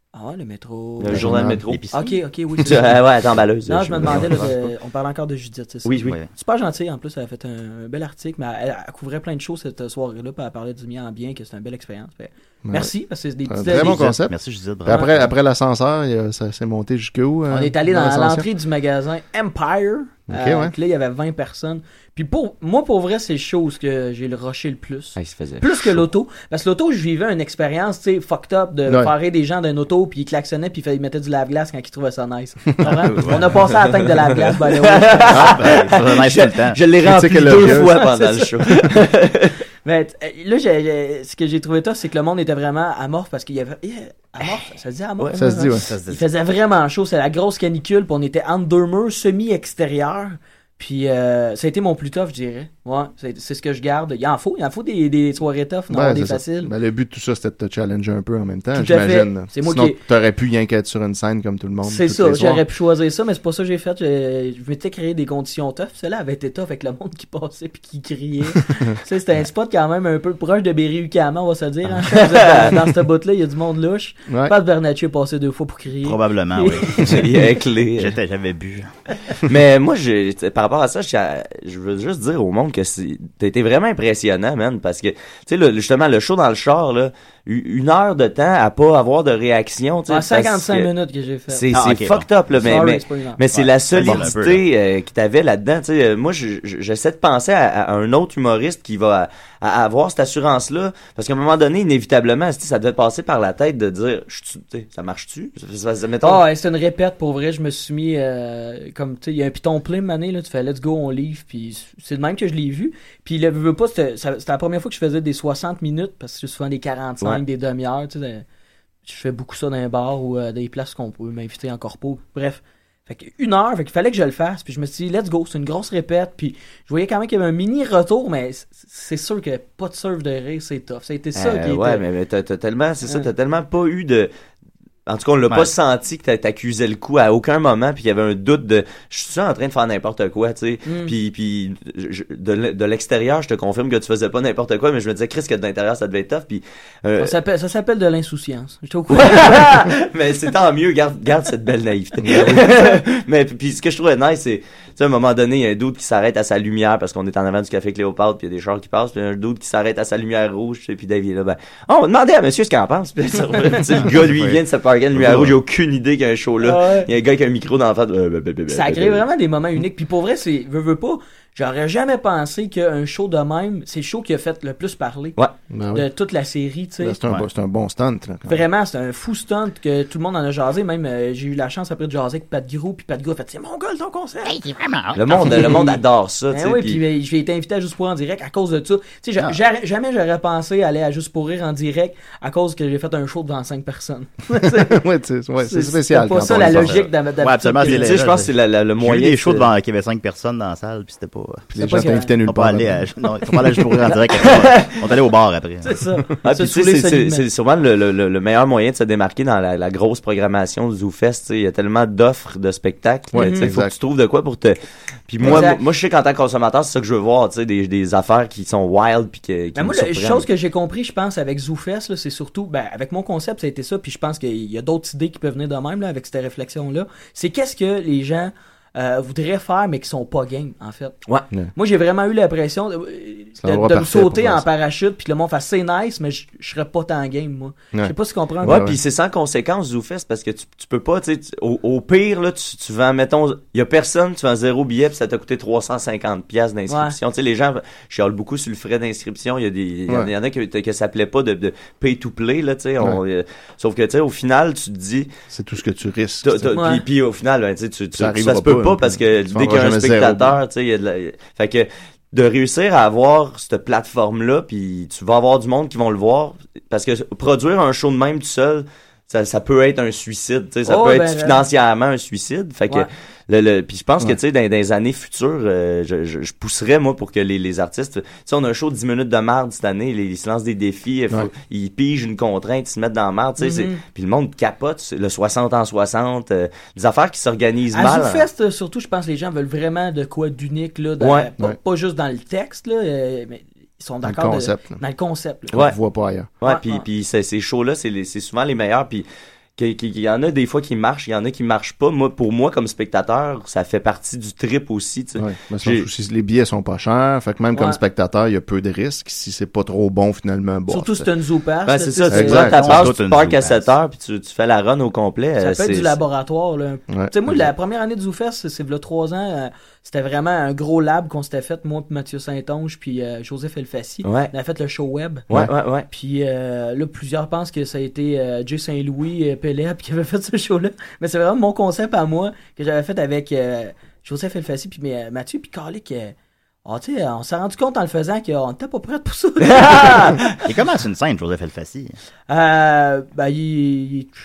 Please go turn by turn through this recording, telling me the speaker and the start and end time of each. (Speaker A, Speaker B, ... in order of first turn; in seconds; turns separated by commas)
Speaker A: 0.1-1.2, Speaker B: 1.0-1.8, Speaker C: 1.1-1.6, Speaker D: 1.1-2.2, Speaker A: 1.9-3.0, Speaker B: 2.6-4.5, Speaker A: 3.7-14.1, Speaker B: 5.8-6.2, Speaker C: 12.6-12.9, Speaker C: 13.5-18.5, Speaker D: 13.7-15.3, Speaker A: 14.9-15.2, Speaker A: 17.5-35.8, Speaker C: 20.3-20.7, Speaker B: 25.2-26.0, Speaker C: 28.9-29.1, Speaker D: 32.8-33.5, Speaker B: 33.6-39.6, Speaker D: 35.3-36.8, Speaker C: 37.0-38.0, Speaker A: 37.6-38.5, Speaker A: 39.8-56.7, Speaker C: 45.4-45.9, Speaker D: 45.8-46.2, Speaker C: 55.9-62.6, Speaker A: 58.7-60.0, Speaker A: 61.8-77.2, Speaker B: 72.1-72.8, Speaker C: 74.3-74.5, Speaker D: 76.0-77.3, Speaker B: 77.0-78.2, Speaker D: 78.0-78.9, Speaker B: 79.4-90.9, Speaker A: 90.1-91.6, Speaker B: 91.5-106.4, Speaker D: 91.7-92.8, Speaker A: 92.6-93.4, Speaker D: 93.5-94.6, Speaker A: 106.2-118.4, Speaker A: 119.0-132.0, Speaker B: 131.3-134.3, Speaker B: 135.1-147.3, Speaker A: 140.8-141.1, Speaker A: 147.2-149.9, Speaker B: 149.1-169.2, Speaker C: 152.2-152.7, Speaker D: 164.0-164.6, Speaker D: 165.2-165.5, Speaker A: 166.6-167.1, Speaker A: 168.7-175.4, Speaker C: 175.7-176.1, Speaker A: 175.9-177.2, Speaker C: 177.0-178.6, Speaker A: 178.5-184.6, Speaker D: 184.4-185.8, Speaker B: 185.1-187.0, Speaker A: 185.3-195.0, Speaker C: 194.6-197.1, Speaker A: 195.6-198.1, Speaker D: 196.5-201.7, Speaker B: 197.8-199.7, Speaker C: 201.7-203.2, Speaker A: 201.8-202.3, Speaker D: 202.4-206.0, Speaker B: 204.4-204.9, Speaker A: 205.8-207.4, Speaker B: 206.4-214.8, Speaker C: 213.3-213.9, Speaker A: 213.3-213.7, Speaker B: 215.3-220.5, Speaker A: 215.4-215.8, Speaker A: 219.7-231.2, Speaker A: 231.8-238.8, Speaker C: 233.6-234.6, Speaker C: 237.9-239.0, Speaker B: 238.6-255.3, Speaker A: 246.9-247.1, Speaker C: 255.5-256.8, Speaker B: 256.4-288.5, Speaker A: 256.7-257.0, Speaker C: 258.1-260.6, Speaker A: 270.9-271.6, Speaker A: 283.6-284.0, Speaker A: 287.9-295.7, Speaker B: 291.2-291.5, Speaker C: 294.2-295.0, Speaker C: 295.7-296.5, Speaker B: 296.6-299.2, Speaker A: 296.6-297.0, Speaker B: 299.8-306.1, Speaker C: 305.4-311.3, Speaker A: 307.7-308.0, Speaker A: 310.9-312.7, Speaker B: 311.9-316.2, Speaker C: 312.3-313.1, Speaker D: 312.5-313.9, Speaker A: 315.6-325.4, Speaker C: 317.1-317.7, Speaker B: 324.2-324.5, Speaker B: 325.5-326.1, Speaker A: 326.1-336.3, Speaker A: 336.8-340.5, Speaker B: 339.6-340.6, Speaker D: 340.6-342.2, Speaker A: 342.5-344.3